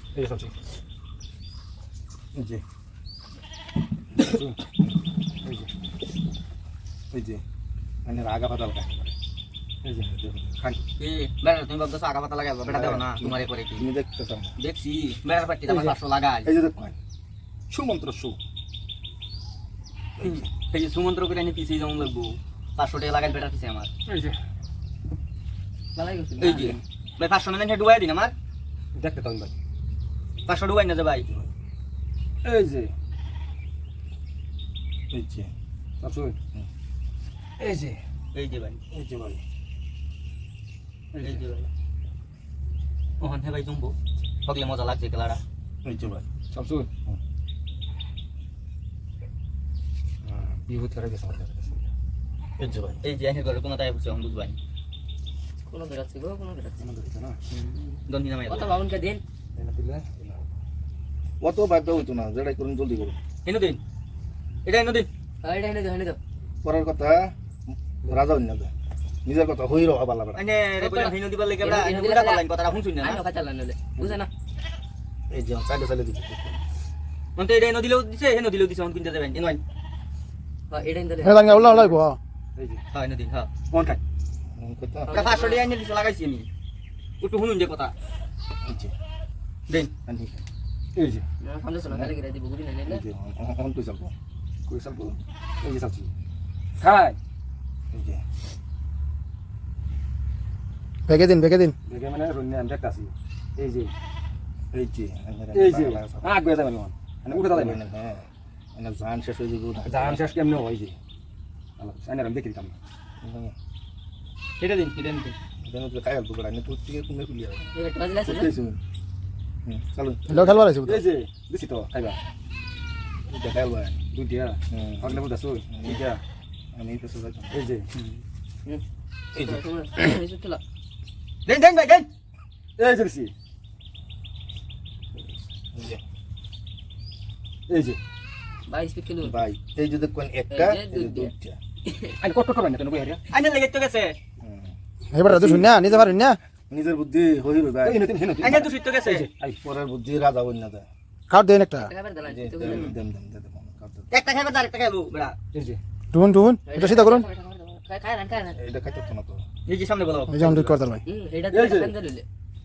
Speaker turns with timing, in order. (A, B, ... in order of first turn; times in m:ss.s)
0:00.2-0:00.6 A
0:02.4-0:02.6 B
0:04.2-0:04.6 A
0:05.4-0:05.7 A
0:07.1-0:07.4 B
0:08.0-0:09.1 B
0:09.8-0:10.8 A
0:10.0-0:10.6 B
0:11.0-0:13.9 C
0:12.6-0:14.6 B
0:14.6-0:16.5 C
0:15.7-0:17.0 B
0:17.7-0:18.4 B
0:20.2-0:20.5 B
0:20.2-0:23.9 C
0:24.1-0:24.4 A
0:26.0-0:26.8 D
0:26.4-0:28.3 C
0:29.0-0:29.5 A
0:30.5-0:31.3 C
0:32.4-0:32.9 A
0:35.1-0:35.5 B
0:36.0-0:36.4 A
0:37.6-0:38.0 A
0:38.3-0:38.8 C
0:38.9-0:39.4 B
0:41.1-0:41.4 A
0:41.2-0:41.7 C
0:43.2-0:45.4 C
0:45.8-0:46.3 B
0:46.5-0:47.2 A
0:50.4-0:51.9 A
0:52.6-0:53.0 B
0:53.0-0:54.6 C
0:55.6-0:56.9 D
0:56.8-0:57.4 A
0:57.5-0:58.8 C
0:58.5-0:59.2 D
0:59.6-1:00.4 A
1:01.4-1:03.2 B
1:03.4-1:03.8 C
1:04.6-1:05.1 C
1:05.4-1:06.2 D
1:06.6-1:07.3 B
1:08.0-1:08.7 B
1:09.2-1:10.5 B
1:10.3-1:13.2 C
1:10.8-1:12.5 D
1:13.0-1:14.3 D
1:15.3-1:16.6 B
1:17.4-1:19.6 C
1:20.7-1:22.0 D
1:21.2-1:22.2 E
1:22.6-1:22.8 A
1:22.9-1:24.0 C
1:24.5-1:25.2 B
1:25.1-1:25.6 D
1:25.1-1:26.5 C
1:27.2-1:27.9 C
1:28.6-1:29.0 B
1:30.1-1:30.4 B
1:31.0-1:31.2 A
1:31.4-1:33.0 D
1:32.9-1:34.1 B
1:34.7-1:36.1 A
1:36.8-1:37.2 A
1:37.9-1:38.2 B
1:41.1-1:41.7 E
1:41.9-1:43.9 A
1:44.7-1:46.3 B
1:45.5-1:47.8 A
1:47.3-1:50.3 B
1:49.8-1:51.0 A
1:51.8-1:52.8 A
1:53.2-1:53.6 B
1:54.6-1:55.4 C
1:55.6-1:57.7 B
1:57.7-1:58.5 D
1:58.2-1:58.8 B
1:59.6-2:00.6 B
2:00.3-2:01.0 E
2:00.8-2:02.2 A
2:03.3-2:04.0 B
2:04.1-2:06.2 A
2:04.7-2:06.1 B
2:06.7-2:07.7 B
2:07.5-2:07.9 A
2:08.0-2:08.2 C
2:09.4-2:09.6 B
2:09.4-2:10.6 D
2:11.5-2:12.1 C
2:12.8-2:13.3 A
2:15.7-2:16.0 B
2:17.7-2:18.0 A
2:18.7-2:19.4 D
2:19.2-2:21.6 B
2:20.5-2:21.3 D
2:21.9-2:22.2 D
2:22.2-2:23.2 A
2:23.3-2:24.2 C
2:24.4-2:24.7 B
2:25.1-2:26.4 E
2:25.3-2:26.1 A
2:26.7-2:28.1 B
2:27.8-2:29.6 A
2:28.4-2:29.3 C
2:29.6-2:30.9 B
2:31.3-2:31.9 E
2:31.8-2:33.0 D
2:32.2-2:34.1 B
2:32.7-2:32.9 C
2:34.1-2:35.4 C
2:35.5-2:35.8 A
2:36.1-2:37.3 E
2:36.7-2:38.6 D
2:38.5-2:39.4 B
2:39.7-2:40.6 C
2:40.3-2:41.0 E
2:40.5-2:40.8 B
2:41.0-2:42.3 D
2:41.5-2:41.9 A